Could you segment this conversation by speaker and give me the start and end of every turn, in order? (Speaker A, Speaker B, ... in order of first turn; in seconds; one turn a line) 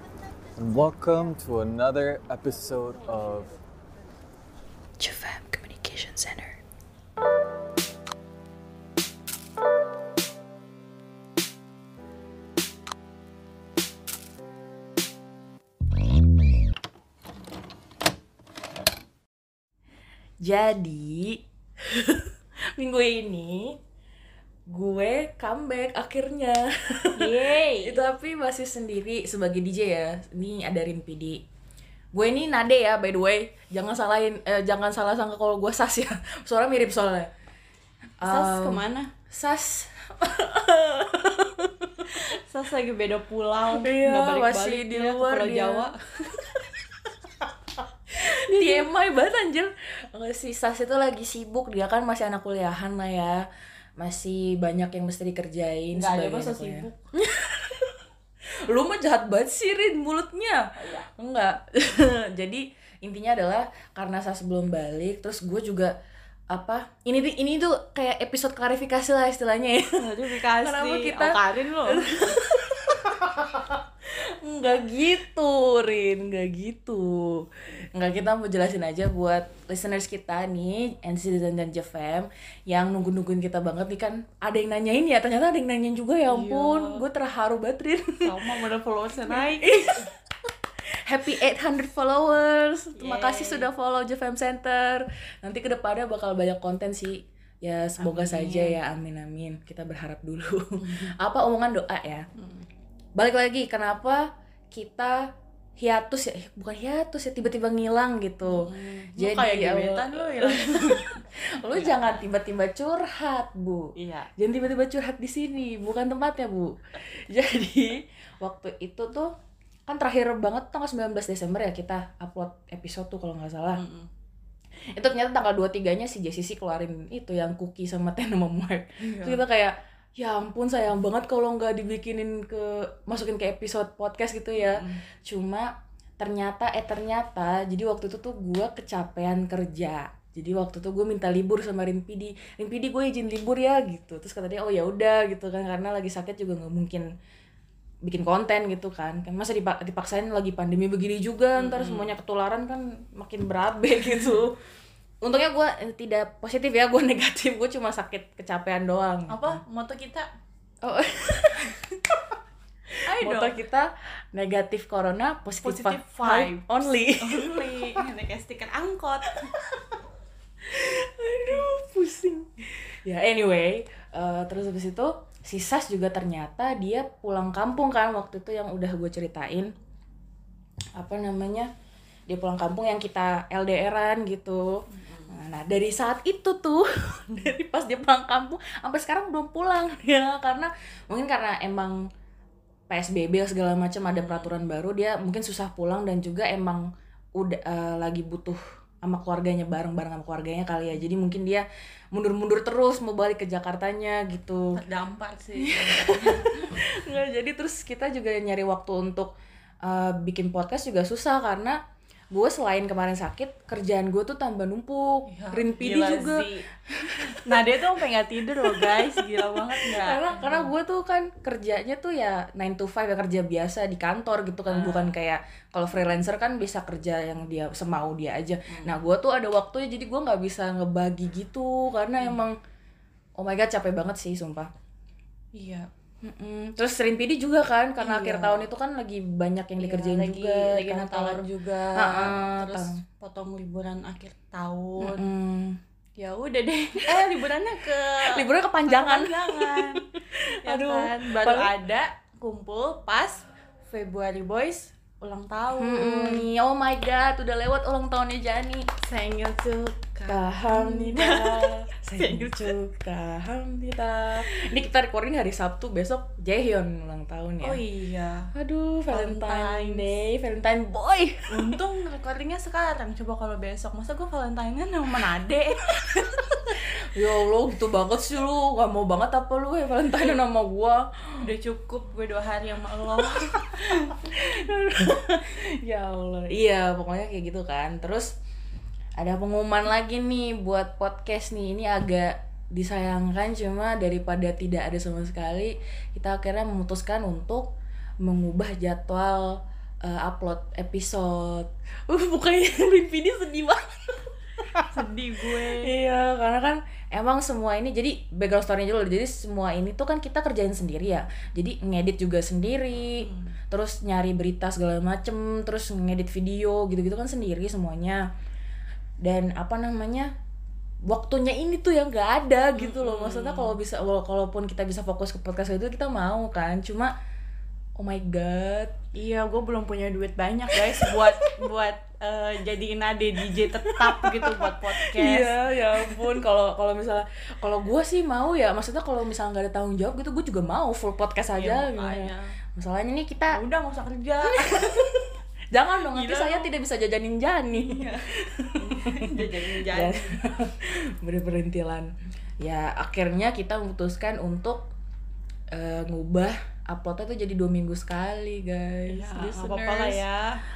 Speaker A: 0.6-3.5
Speaker B: 5.0-6.6
Speaker B: 20.4-21.4
Speaker B: 22.0-22.2
Speaker B: 22.8-23.8
Speaker B: 24.7-31.4
Speaker C: 27.1-28.0
Speaker B: 32.1-37.3
Speaker B: 38.2-41.9
Speaker C: 38.2-39.1
Speaker C: 42.5-46.0
Speaker B: 43.7-45.9
Speaker B: 48.2-53.4
Speaker C: 48.5-48.9
Speaker B: 54.0-57.9
Speaker C: 55.9-57.1
Speaker B: 58.6-60.6
Speaker C: 60.8-61.0
Speaker B: 61.2-65.9
Speaker B: 66.5-73.8
Speaker C: 70.0-72.1
Speaker B: 74.4-88.4
Speaker C: 86.3-87.0
Speaker C: 88.2-89.8
Speaker B: 89.3-90.1
Speaker B: 91.0-102.2
Speaker C: 93.0-93.7
Speaker C: 98.0-98.8
Speaker B: 103.2-105.2
Speaker B: 105.8-116.7
Speaker C: 108.4-111.1
Speaker C: 111.8-112.2
Speaker C: 114.0-114.3
Speaker B: 117.3-119.3
Speaker B: 119.9-123.8
Speaker C: 123.7-124.1
Speaker B: 124.9-147.1
Speaker C: 129.0-129.4
Speaker C: 134.5-135.0
Speaker B: 148.0-154.5
Speaker C: 151.6-152.1
Speaker B: 155.2-159.6
Speaker C: 159.3-160.3
Speaker B: 160.8-161.8
Speaker C: 163.1-163.6
Speaker B: 163.1-167.9
Speaker C: 165.6-166.7
Speaker C: 167.2-169.4
Speaker B: 170.7-179.7
Speaker B: 180.9-181.7
Speaker B: 182.3-191.9
Speaker C: 185.0-185.3
Speaker B: 192.9-196.8
Speaker C: 194.1-194.6
Speaker B: 197.4-204.8
Speaker C: 204.7-206.6
Speaker B: 205.6-209.3
Speaker B: 209.8-211.8
Speaker B: 212.3-217.7
Speaker C: 215.3-216.7
Speaker C: 217.4-220.7
Speaker B: 218.6-232.6
Speaker C: 224.7-225.1
Speaker B: 233.4-234.7
Speaker C: 235.5-235.9
Speaker B: 236.2-243.0
Speaker C: 238.0-238.7
Speaker C: 239.8-245.2
Speaker B: 245.0-245.8
Speaker C: 246.2-256.5
Speaker B: 247.0-247.4
Speaker B: 248.2-251.7
Speaker B: 255.8-258.9
Speaker C: 259.0-262.7
Speaker B: 260.3-267.8
Speaker C: 267.6-268.5
Speaker B: 268.5-271.8
Speaker C: 269.1-270.2
Speaker C: 271.5-276.2
Speaker B: 277.1-281.5
Speaker C: 281.4-284.1
Speaker B: 284.1-288.3
Speaker B: 289.2-318.2
Speaker C: 304.9-305.9
Speaker C: 313.2-313.5
Speaker B: 319.2-320.3
Speaker B: 321.1-327.1
Speaker C: 322.7-323.8
Speaker B: 328.0-328.9
Speaker C: 329.1-335.5
Speaker B: 330.8-331.2
Speaker B: 333.6-343.6
Speaker C: 341.6-342.5
Speaker C: 343.5-344.9
Speaker B: 344.5-352.1
Speaker C: 346.1-346.7
Speaker C: 347.7-348.2
Speaker C: 348.8-350.3
Speaker B: 352.6-354.9
Speaker B: 355.7-360.2
Speaker C: 359.1-360.6